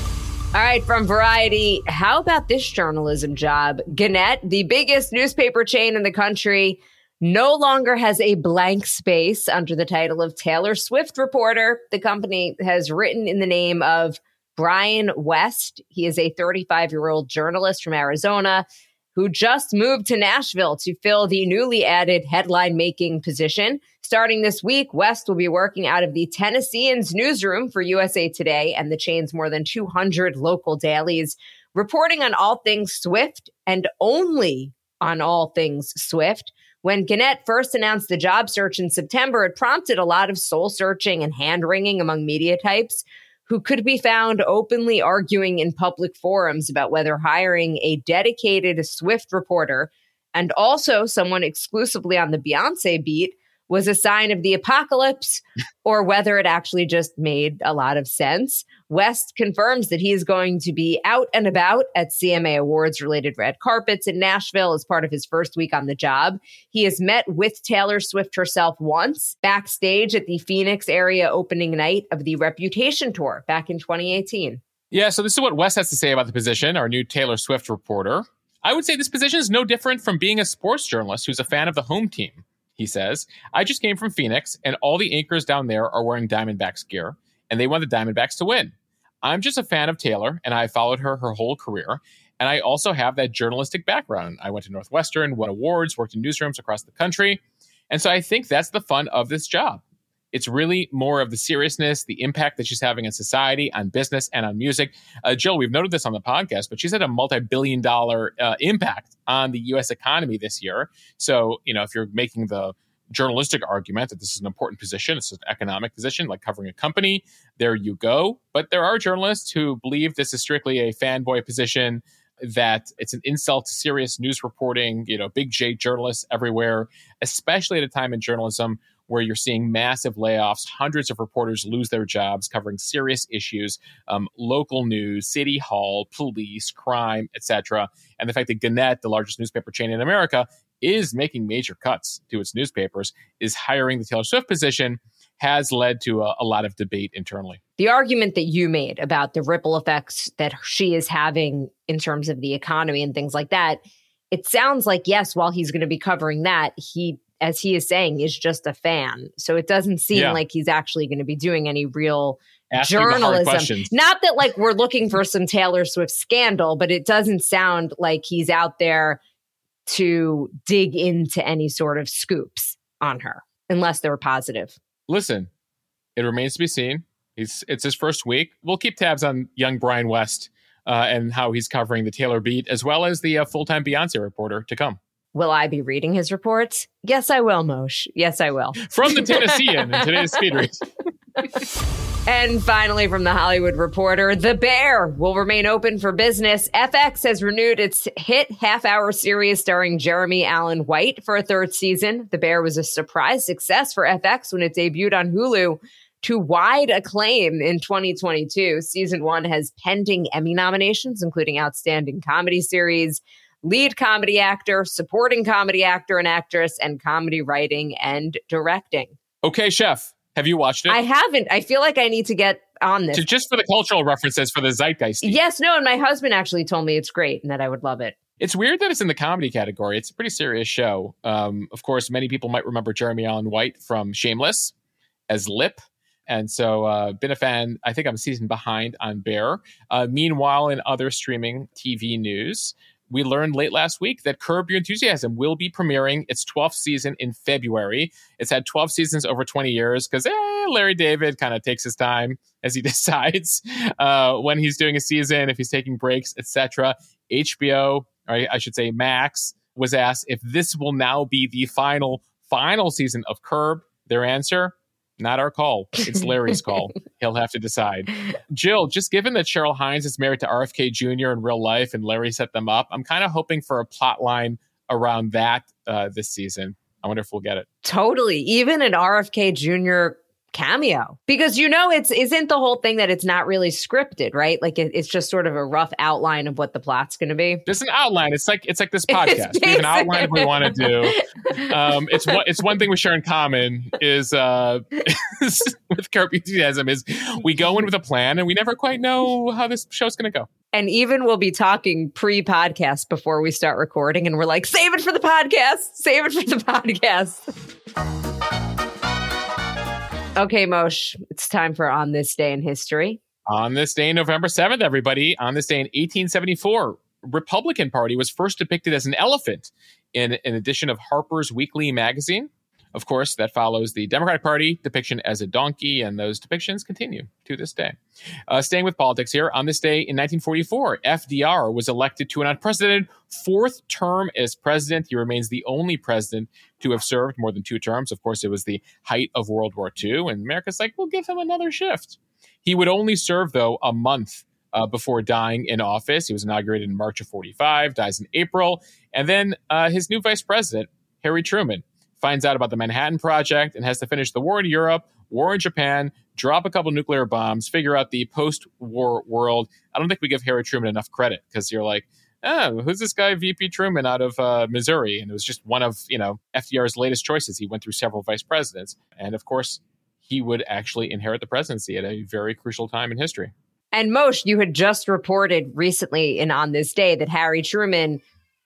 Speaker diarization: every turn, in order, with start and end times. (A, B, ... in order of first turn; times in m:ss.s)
0:00.5-1:14.6 A
1:14.9-2:27.6 B
2:27.8-2:33.8 A
2:34.3-2:49.2 A
2:40.1-2:40.4 B
2:42.7-2:43.9 B
2:49.9-2:54.8 A
2:55.1-2:55.5 B
2:56.2-3:05.0 B
3:05.3-3:10.4 A
3:08.8-3:10.9 B
3:12.3-3:39.2 A
3:39.4-3:41.0 B
3:40.9-3:43.2 A
3:43.1-3:45.4 B
3:45.2-3:48.2 A
3:48.4-3:54.7 B
3:55.3-4:37.7 B
4:37.8-4:47.6 A
4:47.7-5:00.5 B
4:49.1-4:52.4 A
5:00.7-5:07.5 A
5:10.4-5:13.2 A
5:13.5-5:28.0 B
5:28.5-6:13.5 B
6:13.9-6:18.2 A